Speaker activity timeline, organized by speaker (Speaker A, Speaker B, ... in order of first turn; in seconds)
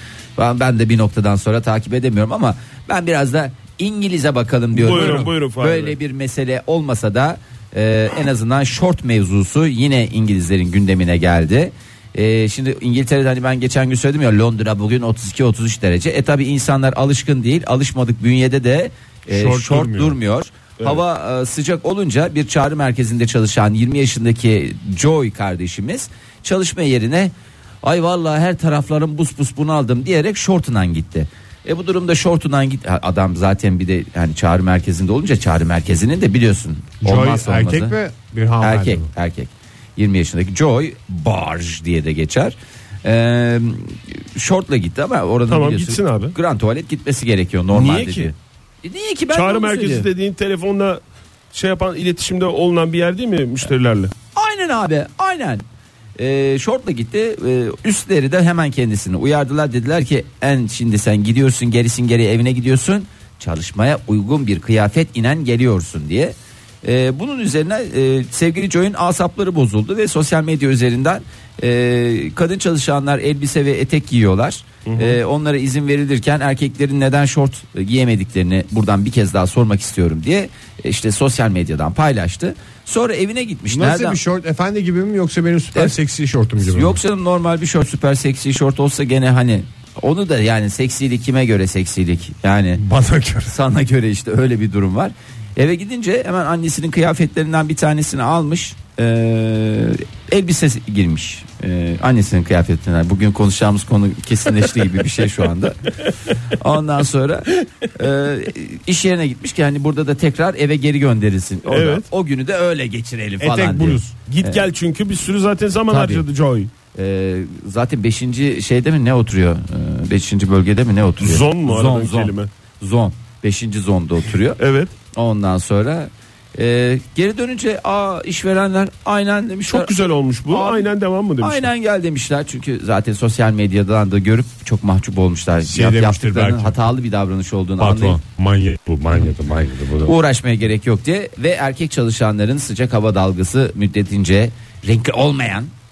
Speaker A: 0.4-38.0, 38.6-50.1, 54.3-55.6, 56.2-84.2, 86.6-92.8, 93.5-114.6, 115.9-116.2, 116.9-124.6, 125.1-129.9, 130.5-130.9, 131.4-138.2, 140.0-145.7
Speaker B: 4.7-6.0, 45.5-46.3, 47.7-48.3, 49.3-51.0, 51.5-54.1, 74.8-75.2, 111.7-112.1, 114.3-116.7, 121.2-122.5, 124.6-124.9, 129.7-131.7
Speaker C: 4.9-5.3, 19.3-20.2, 37.0-39.1, 83.7-87.0, 92.8-93.6, 113.4-114.2, 135.6-136.8, 137.8-140.1